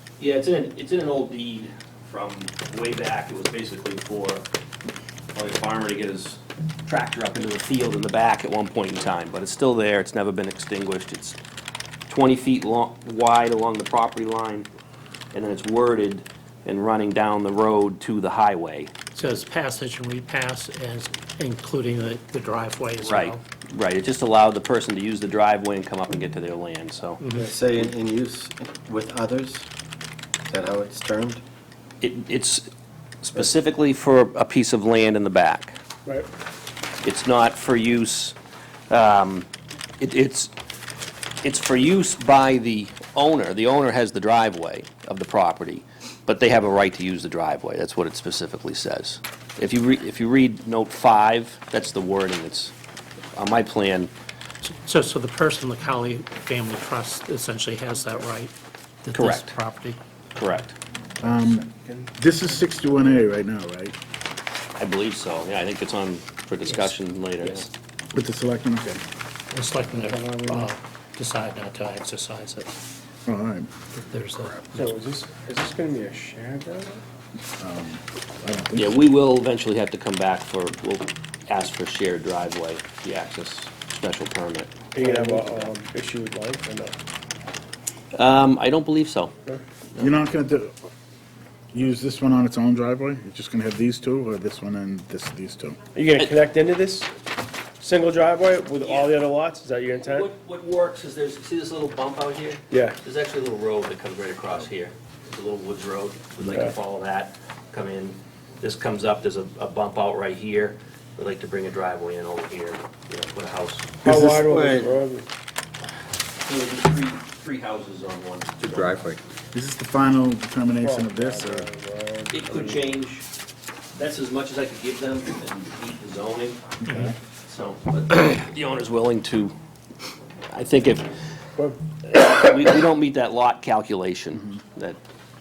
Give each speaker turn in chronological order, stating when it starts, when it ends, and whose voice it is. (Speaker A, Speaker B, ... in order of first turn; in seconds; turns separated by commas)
Speaker A: 0.2-4.4, Speaker A: 5.3-11.4, Speaker A: 12.1-14.7, Speaker A: 15.3-18.9, Speaker B: 19.1-23.4, Speaker A: 23.0-27.2, Speaker B: 27.2-27.4, Speaker C: 27.3-29.7, Speaker C: 30.5-31.4, Speaker A: 32.0-32.7, Speaker A: 33.2-35.8, Speaker A: 37.0-38.3, Speaker A: 38.9-39.5, Speaker A: 40.0-40.5, Speaker A: 41.4-52.7, Speaker A: 53.4-54.1, Speaker B: 54.6-58.5, Speaker B: 59.0-60.0, Speaker A: 59.1-59.5, Speaker A: 60.4-60.8, Speaker D: 61.2-61.6, Speaker E: 61.2-62.1, Speaker D: 62.2-63.9, Speaker A: 64.8-67.7, Speaker B: 66.7-66.9, Speaker D: 68.1-69.0, Speaker B: 69.5-72.7, Speaker E: 69.9-70.7, Speaker D: 73.3-73.7, Speaker B: 74.0-74.9, Speaker E: 74.7-77.0, Speaker D: 77.6-79.0, Speaker A: 78.7-85.7, Speaker E: 84.9-87.0, Speaker A: 88.1-89.3, Speaker D: 90.0-90.7, Speaker D: 91.7-95.8, Speaker E: 95.9-97.1, Speaker E: 97.8-100.3, Speaker A: 98.8-99.1, Speaker A: 100.0-113.9, Speaker E: 102.7-103.0, Speaker E: 106.4-106.7, Speaker E: 114.0-115.3, Speaker D: 114.0-114.5, Speaker C: 114.4-114.9, Speaker A: 116.4-118.9, Speaker C: 118.8-119.2, Speaker D: 119.5-121.7, Speaker E: 120.8-122.8, Speaker A: 122.3-123.3, Speaker A: 123.9-126.8, Speaker D: 126.8-127.1, Speaker A: 127.5-129.5, Speaker A: 130.5-131.1, Speaker A: 132.1-135.0